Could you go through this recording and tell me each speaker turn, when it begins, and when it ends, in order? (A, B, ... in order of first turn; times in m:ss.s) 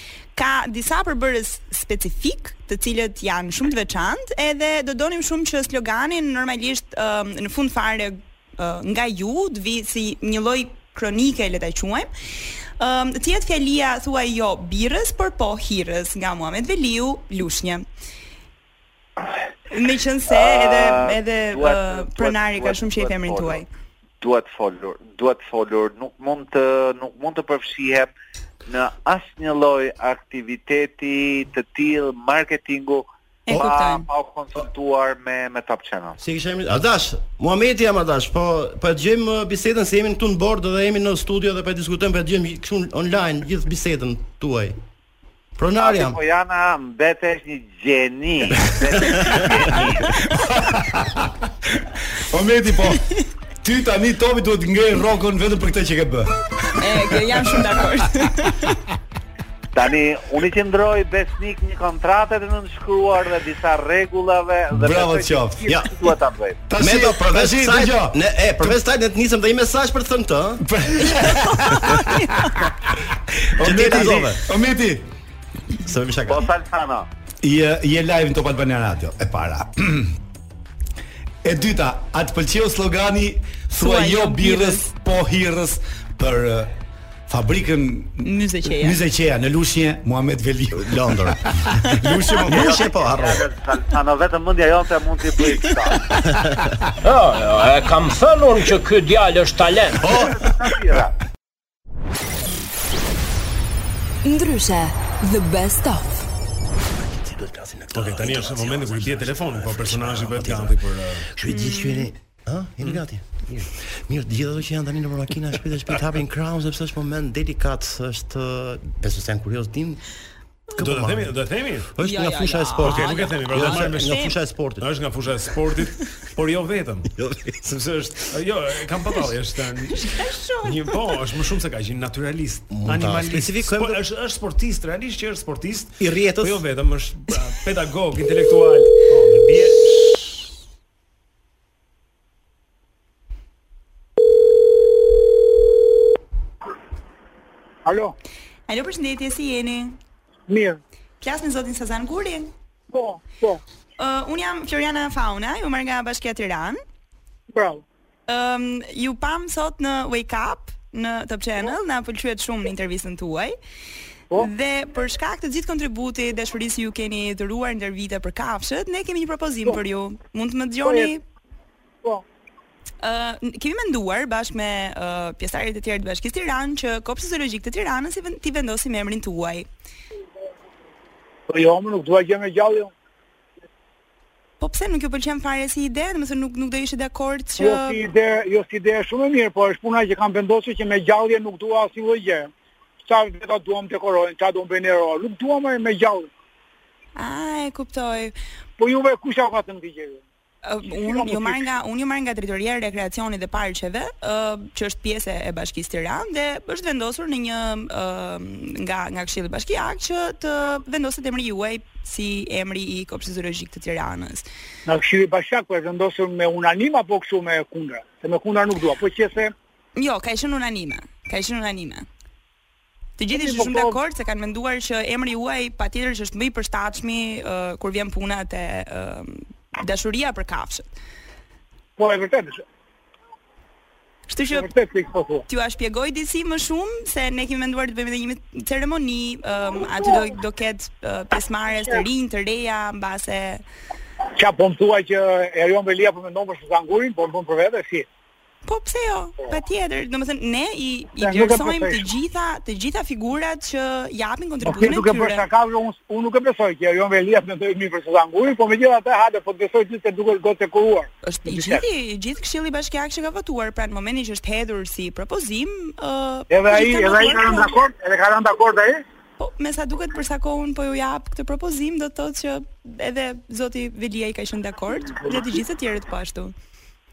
0:00.4-0:12.1 A
0:12.8-0:17.8 A
0:19.7-0:23.7 A
0:20.3-0:23.6 B
0:24.2-0:28.1 B
0:28.7-0:36.2 B
0:33.5-0:34.1 A
0:36.2-0:44.8 C
0:45.6-0:46.2 C
0:45.8-0:50.0 B
0:50.1-0:53.1 D
0:53.6-0:56.7 D
0:56.8-0:58.8 A
0:59.7-1:06.6 B
1:04.7-1:05.7 D
1:06.7-1:08.8 D
1:06.8-1:10.6 C
1:10.6-1:15.0 D
1:13.6-1:14.4 C
1:15.8-1:16.5 C
1:16.3-1:17.1 B
1:17.4-1:20.1 D
1:21.4-1:26.7 D
1:23.8-1:24.9 A
1:27.3-1:32.8 D
1:28.2-1:29.0 A
1:30.7-1:31.4 C
1:32.4-1:33.5 C
1:32.5-1:36.0 B
1:36.3-1:36.6 C
1:37.0-1:40.0 E
1:40.0-1:40.4 C
1:40.2-1:41.1 B
1:44.2-1:46.2 F
1:47.0-2:00.0 C
1:47.9-1:51.3 G
1:51.5-1:52.1 A
2:00.8-2:04.9 C
2:00.8-2:01.9 G
2:02.0-2:04.4 A
2:02.8-2:20.4 G
2:07.2-2:07.7 C
2:10.0-2:10.8 A
2:12.7-2:14.0 C
2:16.0-2:16.6 C
2:27.8-2:28.2 H
2:28.7-2:30.0 A
2:30.5-2:30.8 H
2:31.2-2:32.5 A
2:32.9-2:33.6 H
2:34.0-2:36.8 A
2:37.5-2:37.8 H
2:38.3-2:43.6 A
2:44.4-2:51.2 A
2:50.8-2:51.1 H
2:53.0-2:59.7 A
3:01.5-3:02.9 H
3:04.6-3:08.0 A
3:07.6-3:12.5 H
3:13.0-3:16.3 H
3:17.2-3:18.3 A
3:18.8-3:20.2 H
3:20.6-3:34.5 A
3:20.9-3:21.7 H
3:34.9-3:39.5 H
3:40.0-3:42.1 A
3:43.2-3:50.9 A
3:43.3-3:44.0 H
3:52.0-3:52.6 H
3:54.3-3:54.7 A
3:54.5-3:55.4 H
3:55.5-4:03.6 A
4:04.4-4:08.1 H
4:08.6-4:15.5 A
4:11.2-4:12.1 H
4:14.6-4:21.8 H
4:21.2-4:27.8 A
4:26.5-4:29.0 H
4:29.4-4:36.5 A